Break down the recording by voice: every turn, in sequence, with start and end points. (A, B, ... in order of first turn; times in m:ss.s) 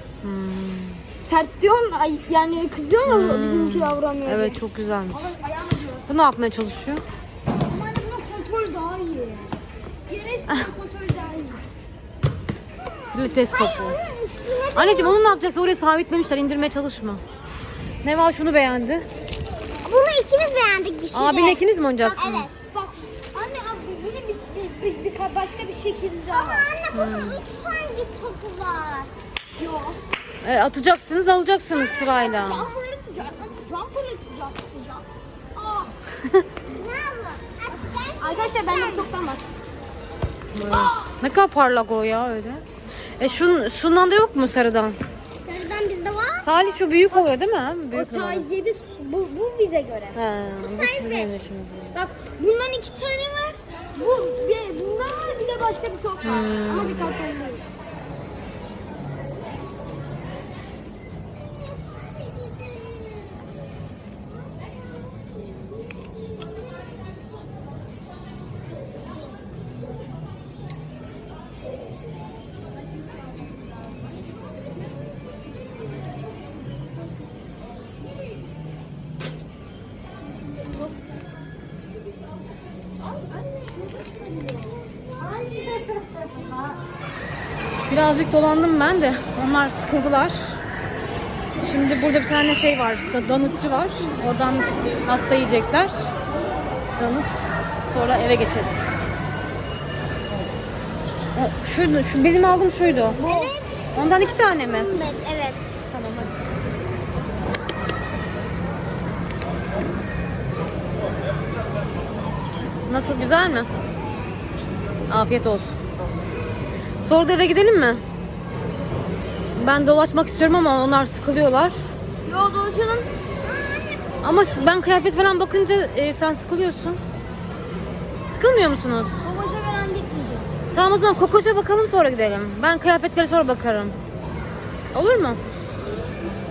0:00.2-0:01.0 A
0:01.2-0:06.0 B
0:03.0-0:05.3 A
0:06.0-0:07.0 A
0:07.7-0:09.6 B
0:10.1-0:11.6 B
0:13.1-0:14.0 A
0:13.2-0:15.4 C
0:14.7-0:17.2 A
0:18.0-0:19.0 A
0:19.8-0:22.5 C
0:21.1-0:22.4 A
0:22.0-0:26.7 B
0:26.3-0:29.1 C
0:26.9-0:27.4 A
0:29.6-0:30.0 B
0:30.4-0:32.7 A
0:32.0-0:35.9 B
0:36.7-0:39.1 C
0:38.2-0:39.5 B
0:40.5-0:42.6 A
0:43.2-0:45.0 A
0:45.4-0:46.5 C
0:46.4-0:48.5 A
0:46.8-0:47.3 B
0:47.9-0:50.2 B
0:50.1-0:51.9 A
0:50.6-0:51.2 C
0:51.9-0:57.8 B
0:56.2-0:57.1 A
1:01.8-1:03.1 C
1:25.4-1:26.1 B
1:27.9-1:30.6 A
1:31.6-1:36.1 A
1:34.6-1:35.2 C
1:37.0-1:38.9 A
1:41.3-1:43.2 A
1:43.2-1:43.5 B
1:43.2-1:45.6 C
1:43.9-1:44.9 A
1:45.9-1:46.3 A
1:52.9-1:53.7 A
1:55.1-1:55.8 A
1:57.0-1:58.0 A
1:59.5-2:01.8 A
2:02.2-2:03.1 B
2:03.4-2:04.9 C
2:04.2-2:07.0 A
2:08.3-2:09.1 A
2:09.2-2:10.5 B
2:10.7-2:14.0 A
2:14.9-2:15.4 A